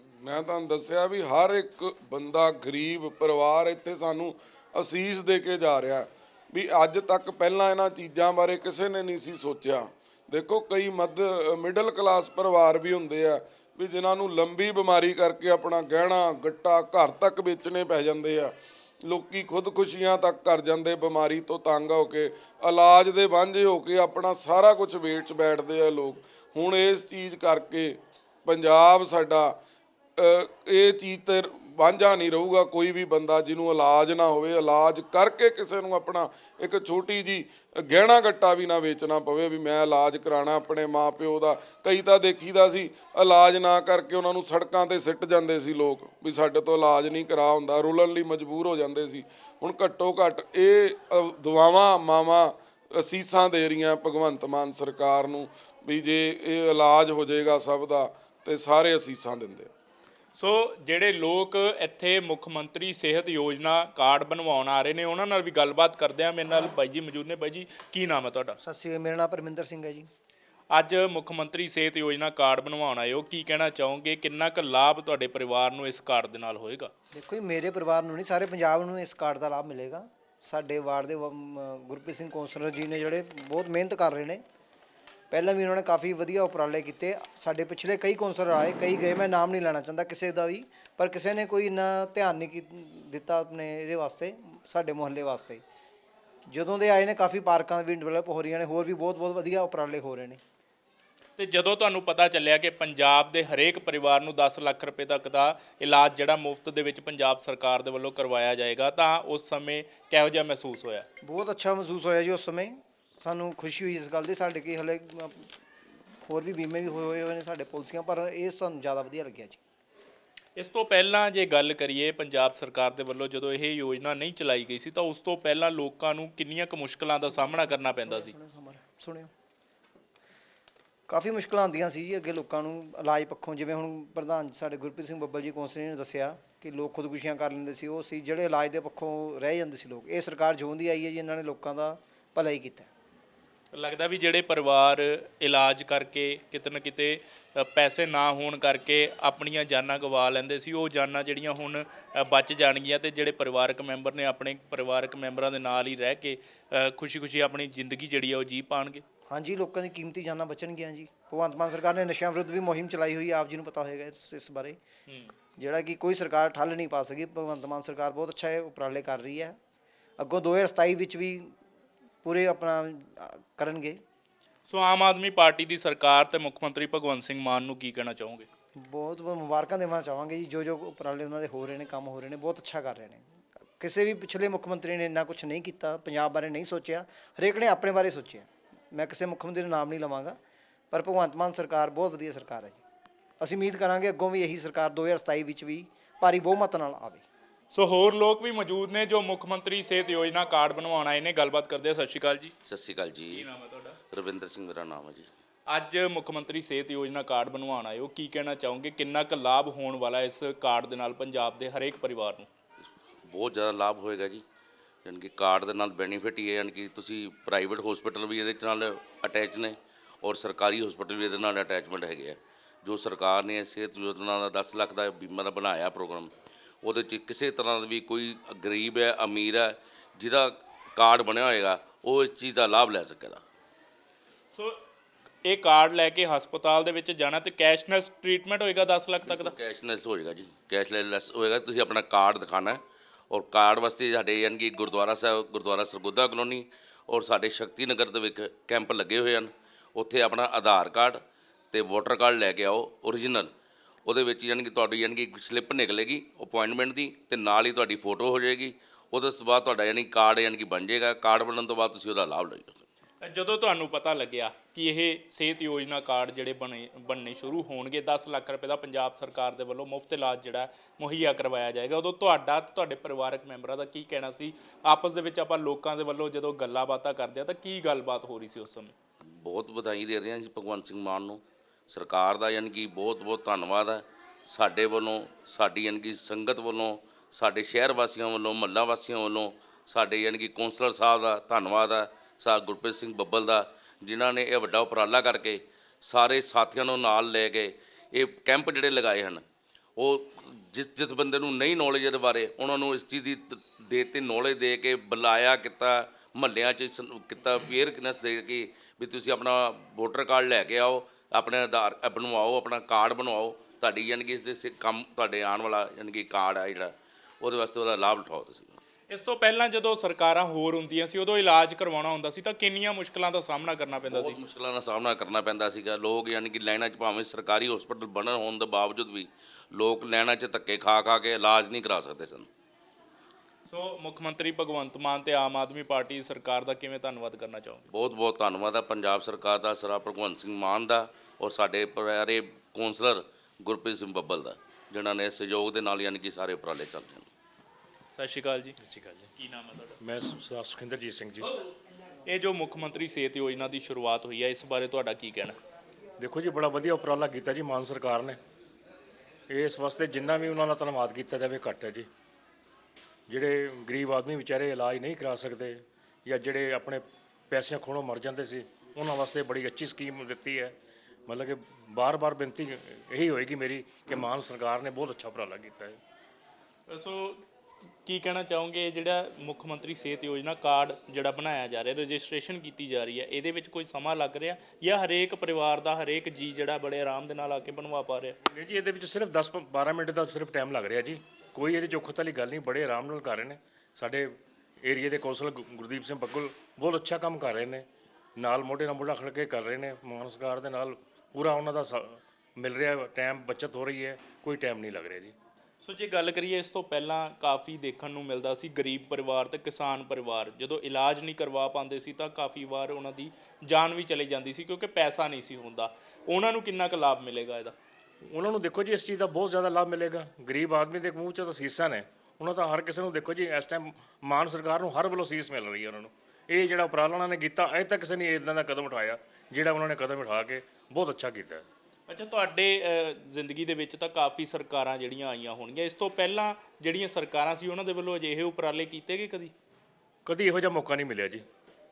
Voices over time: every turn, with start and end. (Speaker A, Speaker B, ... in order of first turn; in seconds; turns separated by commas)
Speaker A: 0.2-18.5, Speaker A: 19.1-29.5, Speaker A: 30.2-59.7, Speaker B: 60.4-68.6, Speaker C: 68.6-70.1, Speaker B: 70.7-76.9, Speaker C: 77.1-84.4, Speaker C: 85.3-95.6, Speaker C: 96.5-100.4, Speaker B: 101.4-111.1, Speaker C: 111.2-115.5, Speaker C: 116.2-119.6, Speaker B: 120.6-128.3, Speaker C: 127.5-129.3, Speaker C: 131.1-142.9, Speaker B: 143.7-159.0, Speaker C: 159.3-164.8, Speaker B: 165.1-165.3, Speaker C: 165.6-169.6, Speaker C: 170.2-171.5, Speaker C: 172.2-174.0, Speaker B: 174.7-178.5, Speaker C: 178.8-183.2, Speaker C: 183.8-190.4, Speaker C: 190.9-192.8, Speaker C: 193.4-197.3, Speaker B: 197.7-202.6, Speaker D: 202.7-203.4, Speaker B: 203.3-204.0, Speaker D: 204.1-205.3, Speaker B: 205.7-212.5, Speaker D: 213.3-214.4, Speaker D: 215.1-226.3, Speaker D: 226.8-233.4, Speaker B: 234.5-234.8, Speaker B: 235.4-239.5, Speaker D: 239.3-253.5, Speaker D: 254.1-262.9, Speaker B: 263.2-278.9, Speaker D: 279.2-299.4, Speaker D: 300.0-318.8, Speaker B: 319.1-324.4, Speaker D: 324.1-332.5, Speaker B: 333.7-337.9, Speaker D: 337.9-347.3, Speaker B: 348.1-348.8, Speaker E: 348.8-349.3, Speaker B: 349.4-350.0, Speaker E: 350.0-351.6, Speaker B: 352.3-355.6, Speaker E: 356.2-358.4, Speaker E: 359.5-362.1, Speaker E: 363.3-370.7, Speaker E: 371.3-376.0, Speaker B: 376.9-377.4, Speaker B: 378.1-388.4, Speaker E: 388.4-394.3, Speaker E: 394.8-397.9, Speaker E: 398.4-405.3, Speaker B: 405.8-417.7, Speaker E: 418.3-431.7, Speaker B: 432.1-439.5, Speaker E: 440.3-441.4